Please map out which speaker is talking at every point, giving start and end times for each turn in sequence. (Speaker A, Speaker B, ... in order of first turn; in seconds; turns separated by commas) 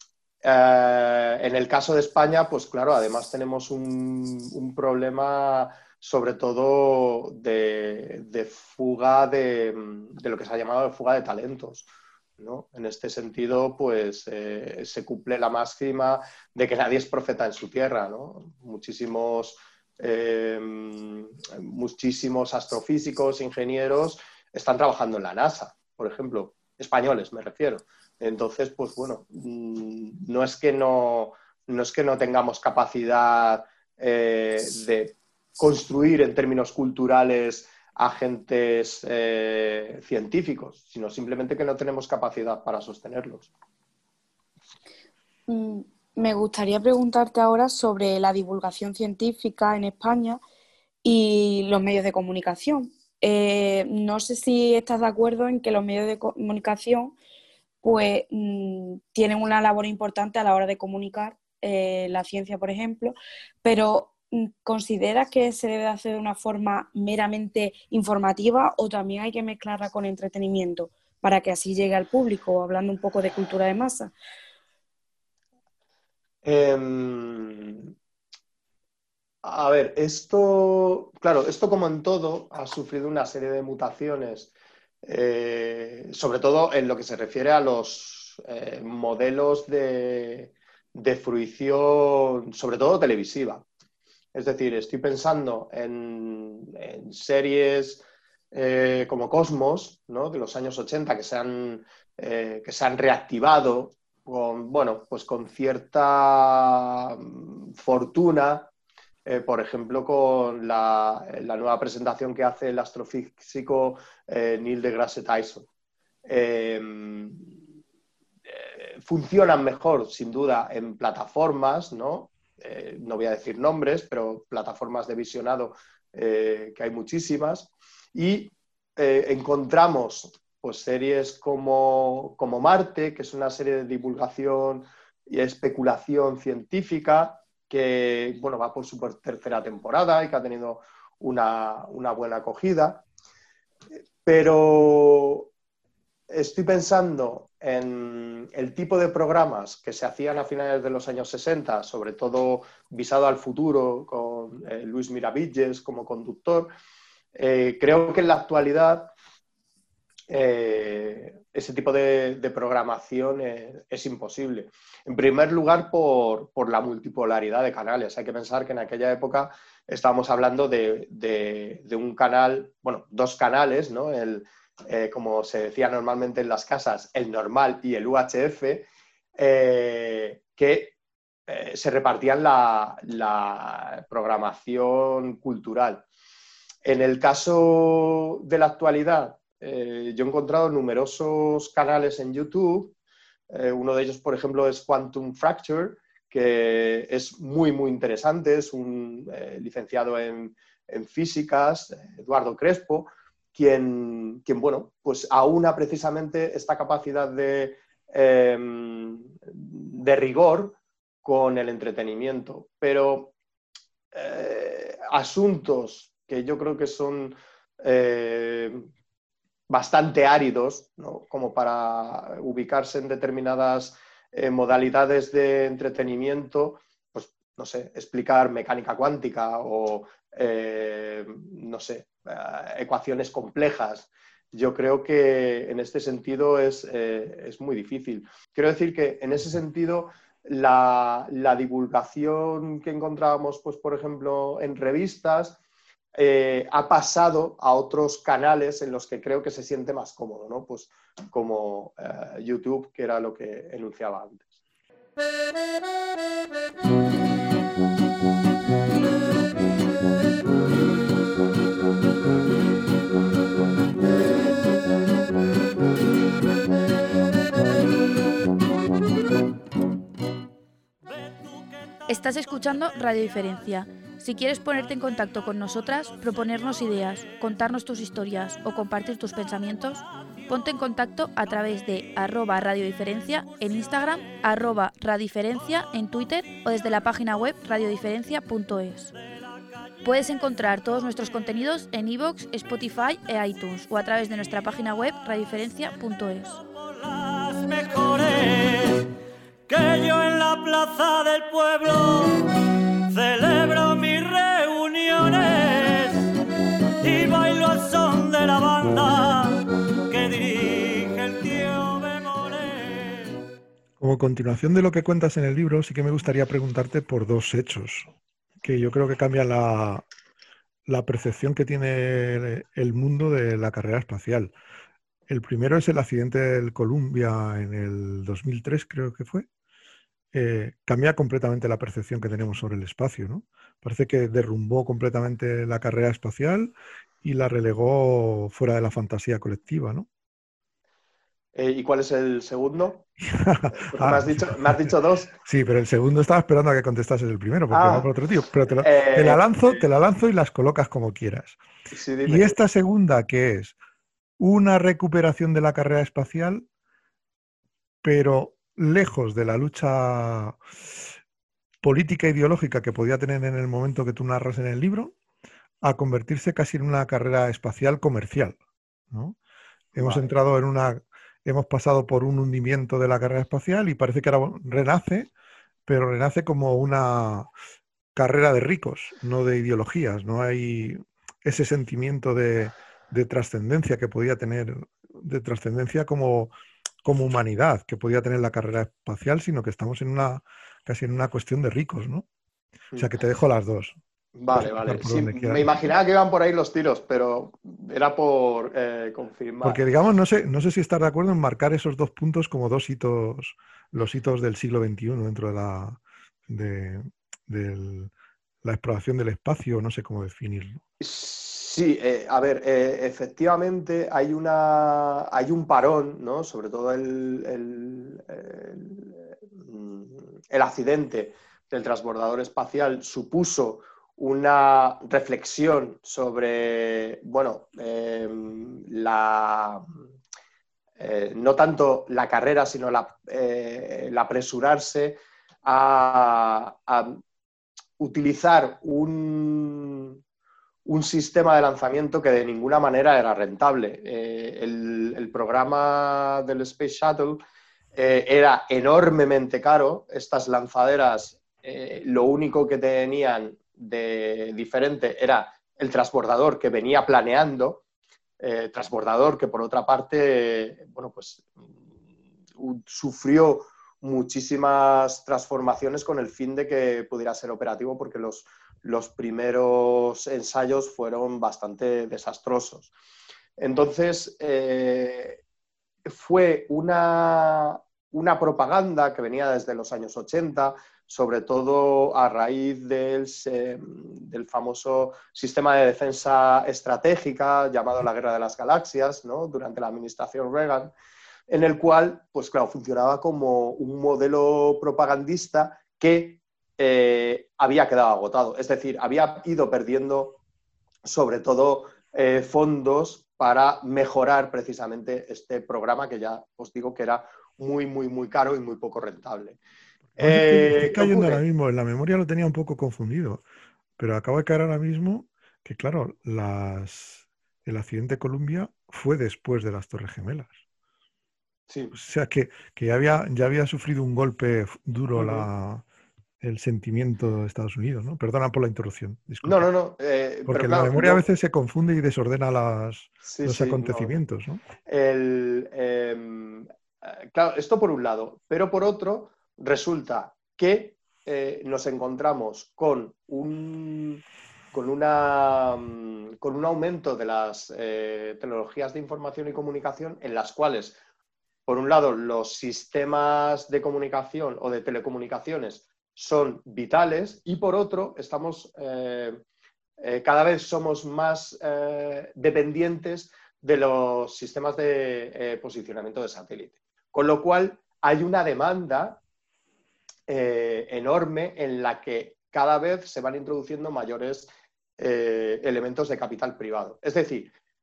Speaker A: 0.4-11.9, Speaker A: 12.4-43.5, Speaker B: 45.5-50.4, Speaker B: 51.0-57.1, Speaker B: 57.8-74.1, Speaker A: 76.4-77.9, Speaker A: 79.4-84.5, Speaker A: 85.0-93.6, Speaker A: 94.3-108.7, Speaker A: 109.2-115.7, Speaker A: 116.2-117.5, Speaker A: 118.5-143.1, Speaker A: 143.9-145.5, Speaker A: 146.3-156.7, Speaker A: 157.3-159.1, Speaker A: 160.3-180.9, Speaker A: 181.5-186.0, Speaker A: 186.8-192.9, Speaker A: 193.5-213.3, Speaker A: 214.1-218.9, Speaker A: 219.7-245.6, Speaker A: 246.1-254.5, Speaker C: 271.0-272.0, Speaker D: 272.1-289.1, Speaker D: 290.0-296.6, Speaker C: 296.6-299.1, Speaker C: 299.7-306.3, Speaker C: 307.0-313.4, Speaker E: 314.0-318.1, Speaker E: 318.6-320.1, Speaker E: 320.9-324.5, Speaker E: 325.3-329.5, Speaker E: 330.3-340.1, Speaker A: 341.5-343.1, Speaker E: 343.2-351.6, Speaker A: 343.8-345.3, Speaker A: 347.7-348.1, Speaker A: 348.7-349.8, Speaker A: 351.9-352.5, Speaker E: 352.2-353.8, Speaker E: 354.4-356.6, Speaker E: 358.0-360.6, Speaker E: 361.8-365.1, Speaker E: 365.8-368.6, Speaker E: 369.1-369.4, Speaker E: 369.9-375.3, Speaker A: 369.9-370.3, Speaker E: 375.9-377.5, Speaker E: 378.1-386.5, Speaker E: 387.0-392.3, Speaker A: 392.9-393.2, Speaker E: 392.9-394.0, Speaker A: 394.4-399.8, Speaker E: 394.5-395.7, Speaker E: 399.6-408.1, Speaker E: 408.6-410.8, Speaker A: 411.0-429.9, Speaker A: 431.0-437.2, Speaker A: 438.0-440.2, Speaker A: 440.8-447.4, Speaker A: 447.9-457.8, Speaker A: 458.4-461.7, Speaker A: 462.6-472.9, Speaker A: 473.6-475.4, Speaker A: 476.1-490.9, Speaker A: 491.5-500.4, Speaker A: 501.0-509.6, Speaker E: 510.1-513.4, Speaker A: 510.2-511.4, Speaker E: 514.0-520.5, Speaker A: 521.7-521.9, Speaker E: 521.9-525.8, Speaker A: 525.1-525.5, Speaker E: 526.4-529.7, Speaker A: 529.4-531.2, Speaker E: 530.5-534.6, Speaker A: 533.2-534.1, Speaker A: 534.9-551.0, Speaker A: 551.7-559.4, Speaker A: 560.0-569.2, Speaker A: 570.3-577.5